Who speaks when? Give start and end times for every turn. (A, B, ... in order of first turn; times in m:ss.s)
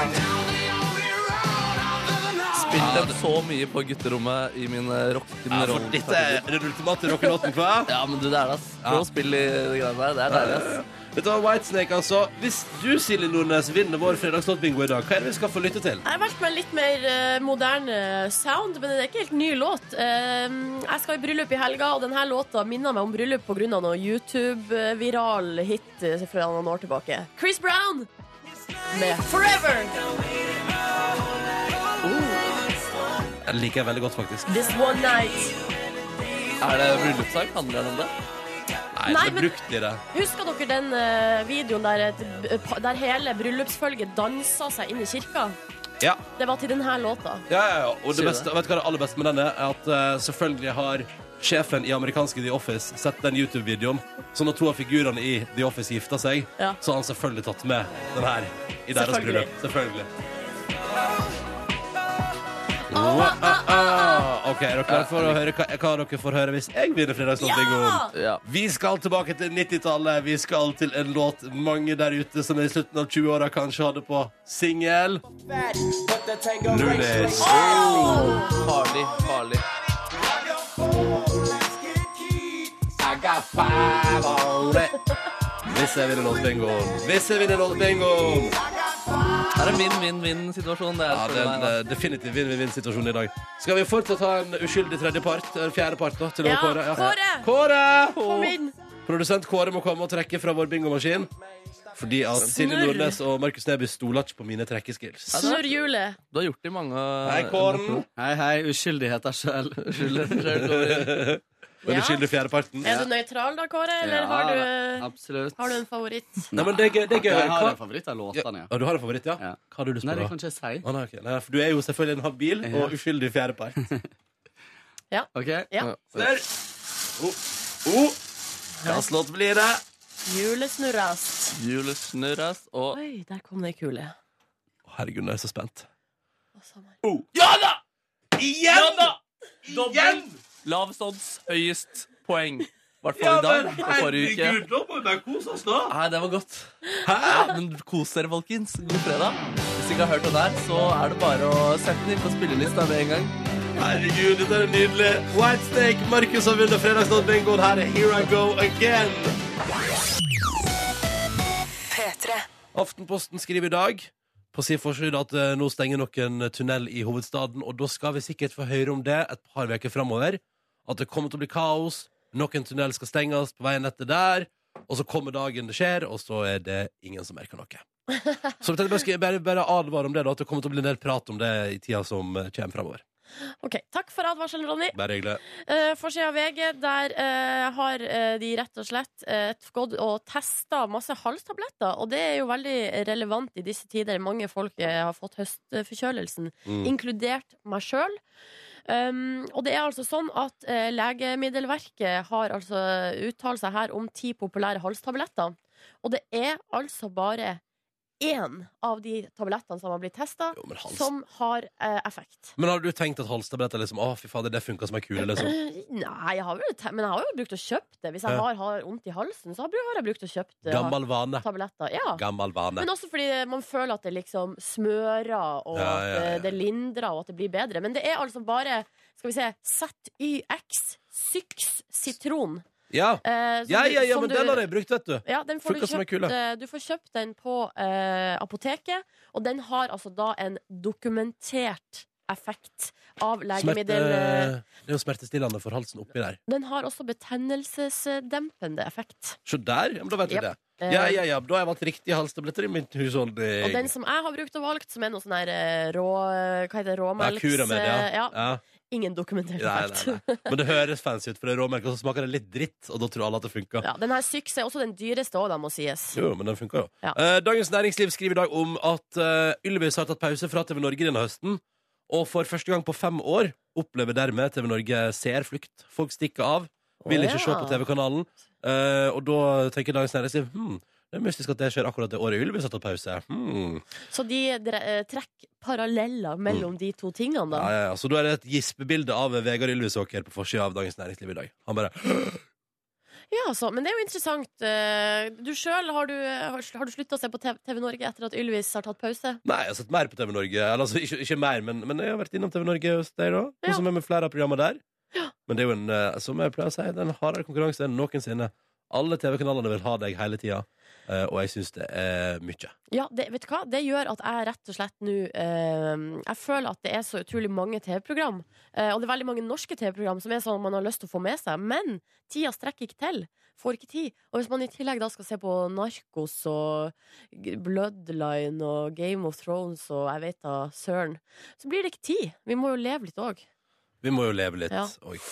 0:02.5-0:06.4 A
0:02.7-0:03.2 B
0:05.5-0:07.9 B
0:07.9-0:10.8 A
0:10.3-0:16.0 B
0:16.0-0:28.1 C
0:28.9-0:30.1 C
0:32.0-0:32.6 C
0:33.4-0:34.6 B
0:34.5-0:35.6 C
0:36.6-0:38.1 A
0:38.9-0:40.0 B
0:39.0-0:39.6 C
0:40.1-0:45.6 C
0:46.4-0:47.4 C
0:47.5-1:00.1 B
0:48.1-0:48.5 A
0:58.9-0:59.5 C
1:02.9-1:15.2 B
1:02.9-1:04.2 C
1:04.9-1:05.4 A
1:07.4-1:08.1 C
1:08.1-1:08.4 A
1:16.6-1:18.2 B
1:17.4-1:18.6 C
1:17.4-1:19.6 A
1:23.7-1:24.9 B
1:25.6-1:28.6 B
1:29.5-1:31.8 A
1:31.1-1:38.5 B
1:36.4-1:37.5 C
1:38.1-1:38.7 C
1:39.0-1:41.3 B
1:41.9-1:45.5 B
1:42.4-1:43.2 C
1:45.3-1:48.0 A
1:45.3-1:46.2 C
1:47.2-1:48.0 B
1:48.2-1:50.5 D
1:49.8-1:51.2 A
1:50.6-1:52.9 B
1:51.8-1:52.2 C
1:52.8-1:56.5 C
1:54.0-1:55.8 D
1:56.5-1:58.7 D
1:56.5-1:57.8 B
1:58.3-2:03.8 B
1:59.4-2:00.8 D
2:02.6-2:02.9 D
2:05.1-2:05.9 C
2:05.3-2:05.7 D
2:06.1-2:06.5 B
2:07.2-2:08.2 B
2:08.8-2:09.0 C
2:08.8-2:09.8 B
2:10.2-2:11.5 C
2:11.6-2:13.0 A
2:12.9-2:14.2 C
2:14.8-2:15.9 B
2:16.6-2:17.0 C
2:17.0-2:17.4 B
2:17.4-2:17.8 A
2:18.4-2:20.4 B
2:19.6-2:24.6 A
2:23.1-2:25.9 B
2:25.9-2:26.7 A
2:27.0-2:27.5 B
2:27.2-2:33.3 A
2:33.8-2:39.4 B
2:42.7-2:57.8 B
2:58.6-3:03.0 B
3:03.6-3:05.0 C
3:04.9-3:05.4 B
3:05.5-3:18.2 C
3:16.6-3:16.9 B
3:18.9-3:27.6 C
3:28.2-3:32.6 C
3:30.5-3:31.1 B
3:32.6-3:35.5 B
3:35.2-3:42.2 C
3:40.6-3:41.4 B
3:42.2-3:42.9 B
3:42.8-3:52.6 C
3:45.7-3:46.5 B
3:52.9-3:56.3 B
3:53.2-3:54.7 C
3:55.2-4:04.5 C
4:03.6-4:06.4 B
4:06.5-4:09.4 C
4:09.4-4:13.9 B
4:10.3-4:11.2 C
4:13.6-4:18.4 C
4:17.2-4:18.6 B
4:18.9-4:20.5 C
4:19.6-4:23.8 B
4:23.8-4:26.2 C
4:26.1-4:43.8 B
4:37.0-4:37.8 C
4:44.1-4:47.7 C
4:47.5-4:52.4 B
4:53.3-4:59.4 C
4:59.4-5:04.8 B
5:05.5-5:12.7 B
5:12.9-5:33.4 C
5:34.0-5:35.2 B
5:34.7-5:34.9 C